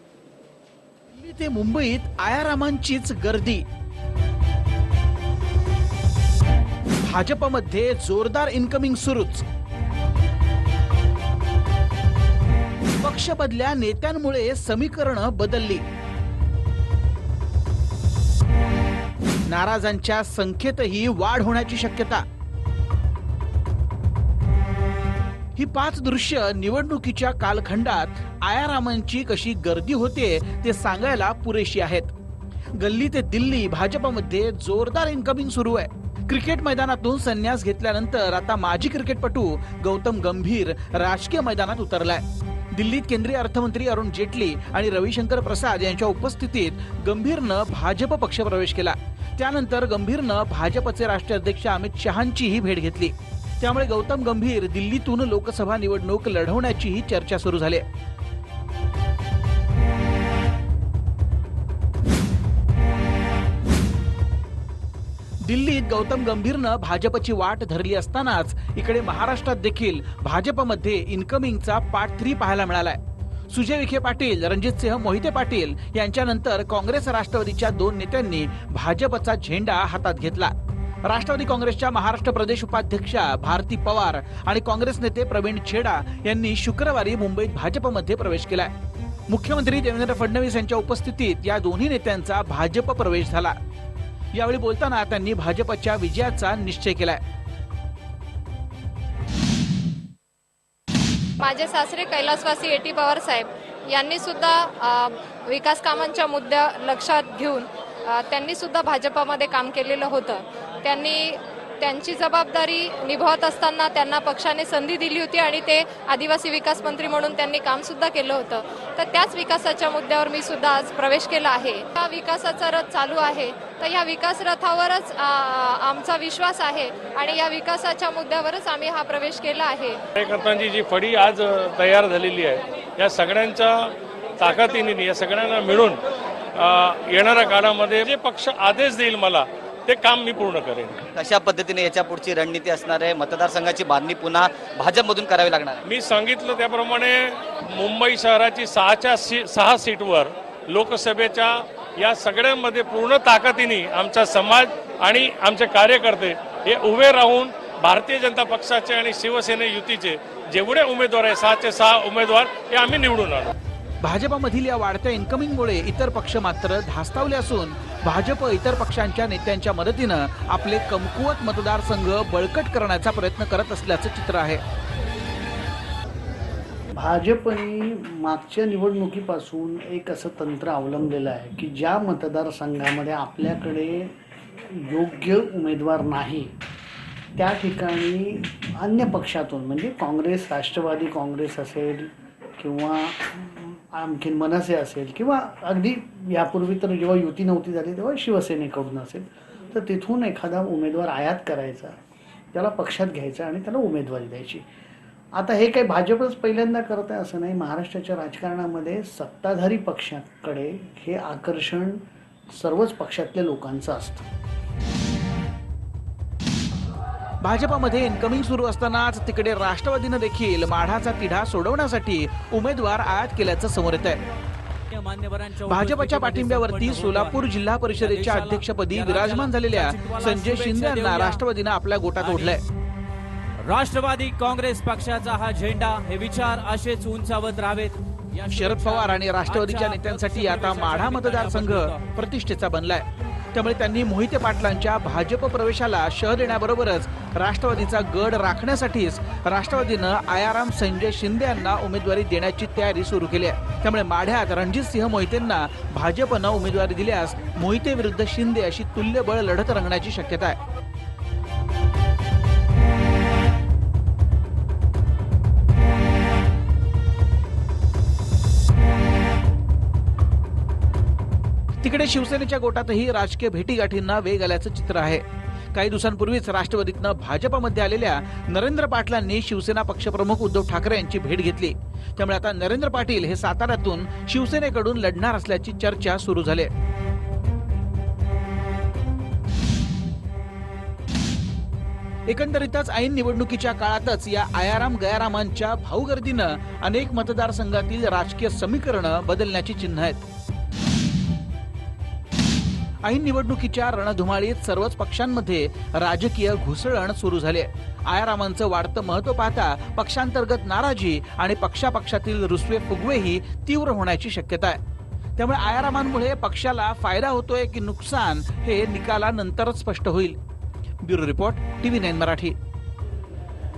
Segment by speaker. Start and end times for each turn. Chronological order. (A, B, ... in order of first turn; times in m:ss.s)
0:01.2-0:03.6 A
0:07.0-0:09.4 A
0:13.0-0:15.8 A
0:19.5-0:22.2 A
0:25.6-0:32.1 A
0:32.8-0:42.2 A
0:42.7-0:57.8 A
1:05.4-1:20.5 A
1:21.1-1:28.7 A
1:29.3-1:33.6 A
1:34.4-1:37.2 A
1:41.4-2:10.0 B
2:10.2-2:13.9 C
2:14.4-2:16.0 C
2:16.6-2:21.0 C
2:21.1-2:25.8 D
2:25.9-2:43.5 C
2:44.0-2:54.6 A
2:57.0-3:04.1 E
3:04.7-3:06.5 E
3:07.4-3:22.0 E
3:22.5-3:24.6 E
3:25.4-3:32.0 E
3:32.5-3:34.3 E
3:37.4-3:44.2 A
3:44.9-3:51.4 F
3:45.6-3:52.6 A
3:52.2-3:52.6 F
3:53.6-4:02.1 F
3:58.5-4:20.6 A
4:31.8-4:35.2 A
4:35.7-4:46.7 A
4:52.3-5:00.2 A
5:03.0-5:14.8 A
5:15.4-5:20.4 A
5:21.0-5:22.6 A